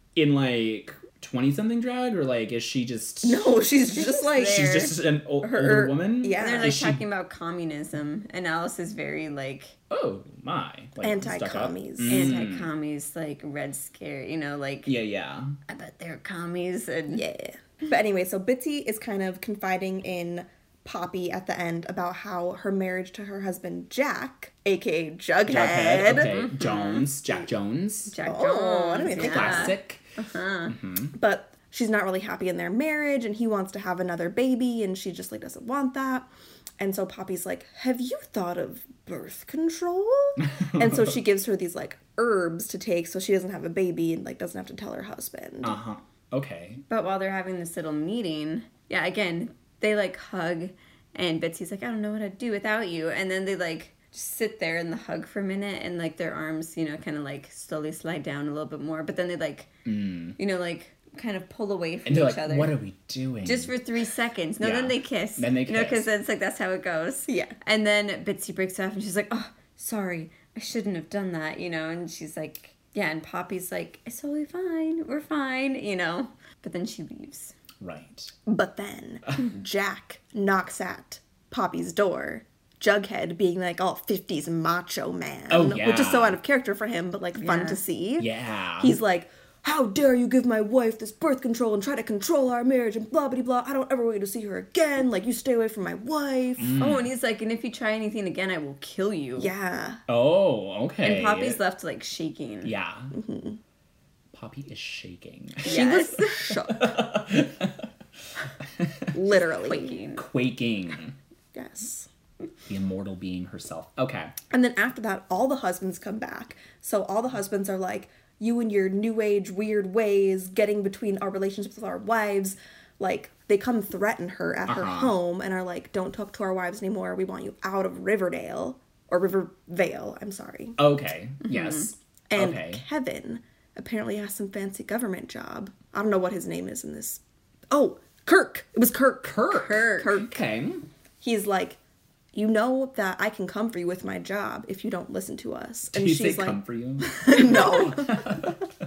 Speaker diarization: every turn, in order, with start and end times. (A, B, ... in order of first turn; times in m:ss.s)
0:00.2-0:03.5 A
0:03.2-0:06.8 B
0:04.0-0:04.9 C
0:04.4-0:07.0 A
0:06.4-0:09.8 C
0:09.9-0:12.7 A
0:11.0-0:12.4 B
0:12.1-0:14.9 C
0:14.9-0:15.6 A
0:15.7-0:17.2 C
0:17.1-0:26.3 B
0:25.5-0:28.2 A
0:26.3-0:27.0 C
0:28.1-0:30.8 C
0:28.2-0:29.8 B
0:29.2-0:30.0 A
0:30.7-0:31.1 A
0:31.1-0:45.8 B
0:40.5-0:41.1 A
0:45.6-0:46.8 A
0:46.9-0:59.7 C
0:59.8-1:00.4 A
1:00.4-1:02.7 C
1:02.1-1:03.8 A
1:03.4-1:17.6 C
1:04.6-1:06.1 A
1:07.3-1:07.5 B
1:17.8-1:18.3 A
1:18.5-1:36.8 B
1:25.5-1:26.4 A
1:27.4-1:27.8 C
1:28.2-1:29.0 A
1:36.6-1:37.1 A
1:36.8-1:39.5 C
1:39.4-1:40.0 B
1:40.1-1:41.6 A
1:41.0-1:42.7 C
1:42.6-1:43.1 A
1:43.1-1:43.6 B
1:44.3-1:45.8 A
1:45.6-1:46.5 C
1:45.6-1:47.0 B
1:46.5-1:47.9 A
1:48.6-1:49.1 A
1:49.1-1:49.9 B
1:49.6-1:50.2 C
1:50.2-1:51.2 A
1:51.5-1:52.1 B
1:52.7-1:54.3 A
1:54.5-2:10.8 B
2:04.7-2:05.1 A
2:10.8-2:12.8 A
2:11.5-2:11.9 C
2:12.3-2:20.4 B
2:19.3-2:20.9 A
2:19.7-2:20.0 C
2:21.2-2:21.8 B
2:22.3-2:28.4 B
2:25.9-2:28.6 A
2:27.3-2:27.8 C